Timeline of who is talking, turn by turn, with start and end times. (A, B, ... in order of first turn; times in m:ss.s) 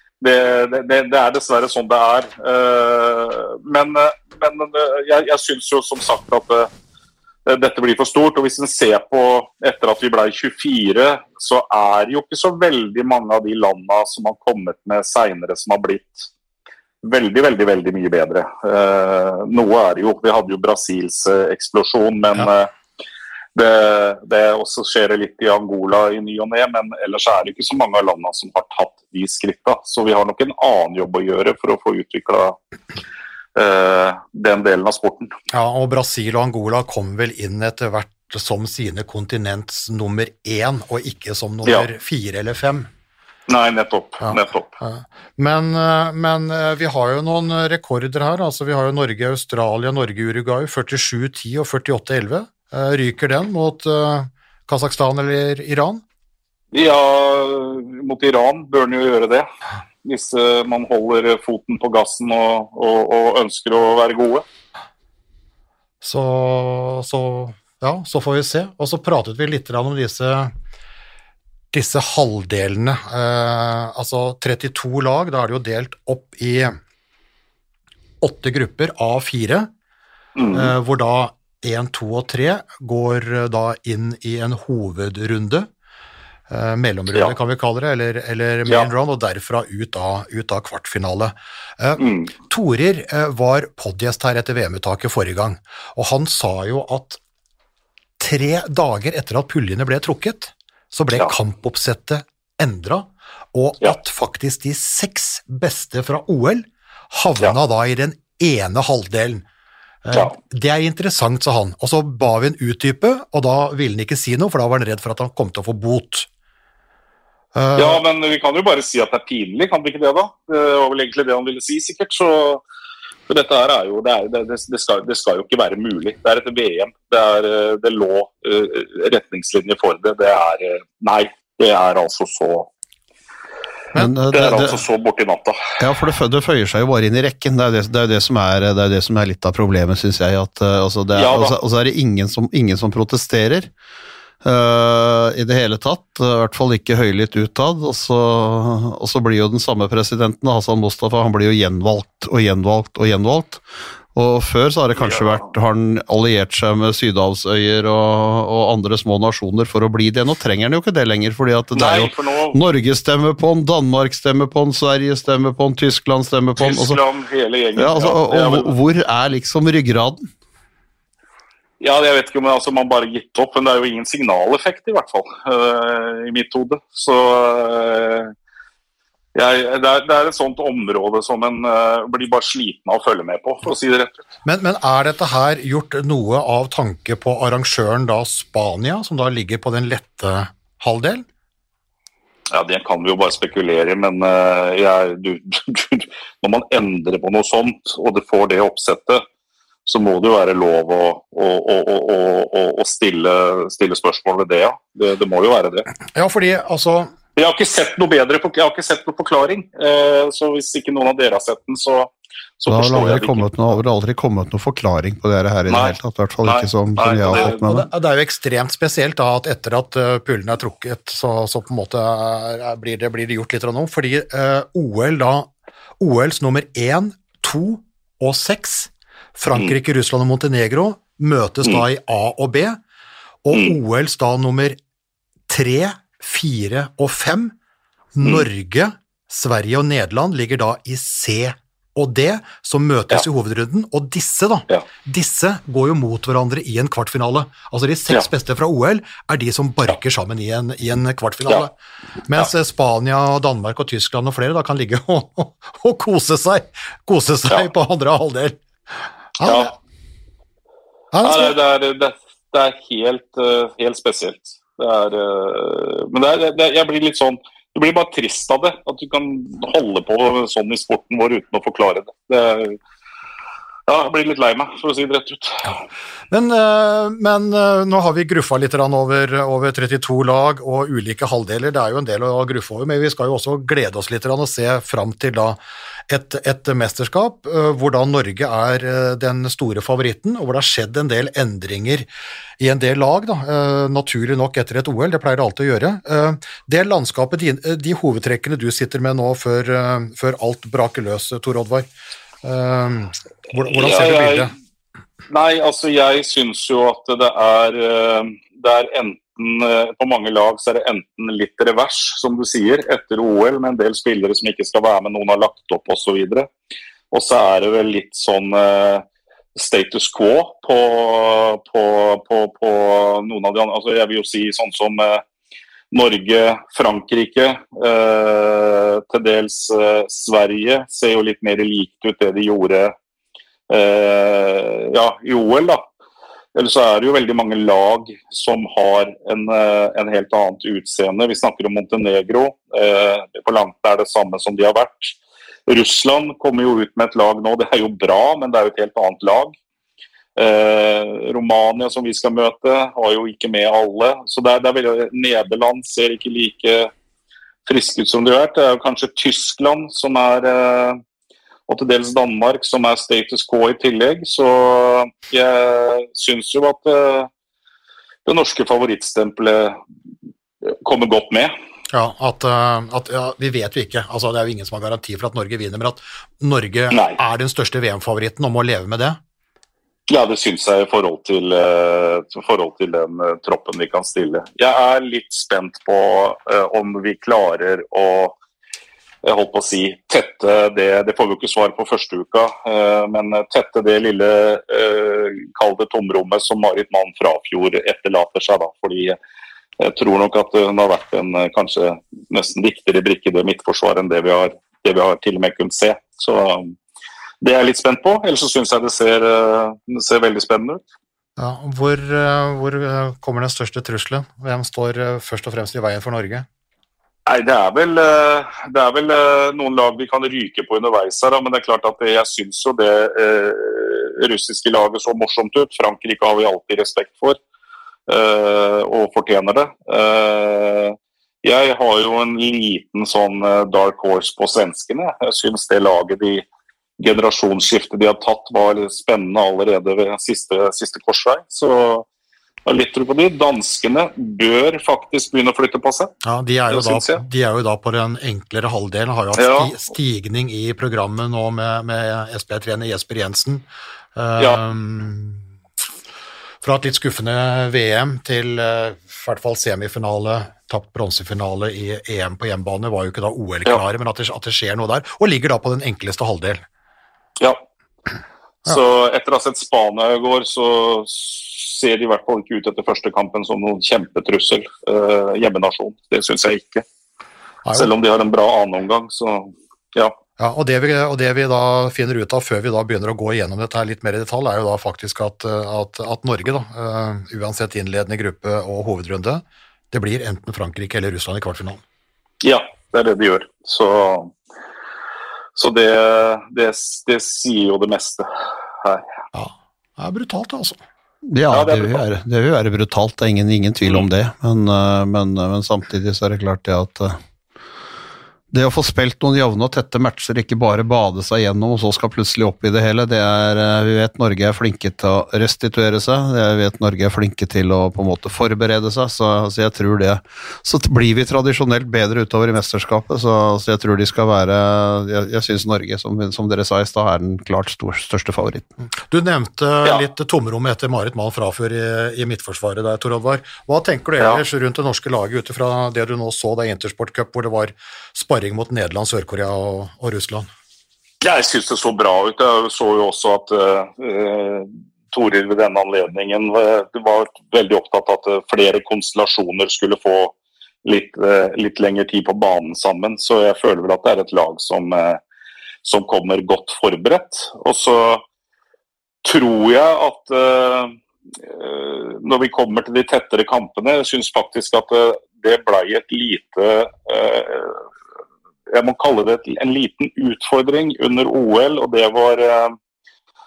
0:00.2-0:06.7 A
0:07.4-0:16.3 A
0:17.0-0:22.7 A
0:23.5-0:32.6 A
0:33.6-0:35.3 A
0:35.5-0:42.9 B
0:43.5-0:44.7 A
0:44.2-0:56.0 B
0:56.7-0:59.5 A
1:00.0-1:04.4 A
1:06.0-1:10.5 B
1:11.7-1:16.8 B
1:18.2-1:19.7 B
1:20.4-1:20.7 A
1:20.5-1:25.7 B
1:26.5-1:37.2 B
1:32.0-1:32.3 A
1:38.2-1:49.4 B
1:50.0-1:56.3 B
1:57.5-1:58.0 B
1:57.8-2:02.6 A
2:03.3-2:12.7 A
2:14.0-2:14.8 C
2:14.3-2:15.8 A
2:15.8-2:23.7 C
2:21.1-2:21.5 A
2:24.4-2:33.6 C
2:34.1-2:47.0 C
2:35.0-2:35.4 A
2:41.8-2:42.6 A
2:46.6-2:48.7 A
2:47.8-2:50.3 C
2:51.8-2:58.3 A
2:59.4-3:04.2 A
3:04.4-3:11.2 B
3:12.5-3:19.2 A
3:19.9-3:25.9 A
3:26.1-3:27.1 B
3:27.4-3:33.5 A
3:32.7-3:37.9 C
3:35.7-3:37.6 A
3:37.3-3:52.8 B
3:53.4-3:54.8 B
3:53.5-3:53.8 A
3:55.5-3:57.5 B
3:58.2-4:11.7 B
4:12.2-4:18.6 B
4:19.4-4:19.7 B
4:19.4-4:19.7 A
4:21.1-4:21.5 B
4:21.2-4:32.8 A
4:33.9-4:35.8 A
4:36.3-4:52.1 B
4:52.6-5:01.9 B
5:02.4-5:04.5 B
5:03.8-5:04.5 A
5:05.3-5:16.5 A
5:17.1-5:19.0 A
5:19.5-5:25.2 A
5:25.9-5:32.9 A
5:33.7-5:35.8 A
5:36.5-5:49.6 A
5:50.4-5:56.9 A
5:57.7-6:01.0 A
6:01.7-6:07.3 A
6:08.2-6:09.8 A
6:10.6-6:11.5 A
6:11.9-6:19.2 B
6:16.9-6:17.2 A
6:20.1-6:28.4 A
6:29.2-6:39.1 A
6:39.8-6:46.7 A
6:47.4-6:50.8 A
6:51.4-6:56.5 B
6:57.2-7:07.4 A
7:08.1-7:16.4 A
7:17.0-7:22.0 A
7:22.7-7:26.1 A
7:26.2-7:35.4 B
7:26.7-7:27.2 A
7:29.3-7:29.7 A
7:36.6-7:46.6 B
7:48.7-7:56.8 A
7:57.6-7:57.9 B
7:57.7-8:00.1 A
8:00.4-8:11.8 B
8:12.4-8:14.3 A
8:15.6-8:18.3 A
8:19.3-8:20.8 B
8:21.3-8:27.2 C
8:21.5-8:22.0 A
8:28.5-8:48.7 C
8:49.0-9:00.5 B
9:01.2-9:15.2 A
9:15.8-9:18.2 A
9:19.2-9:27.8 A
9:28.7-9:32.8 A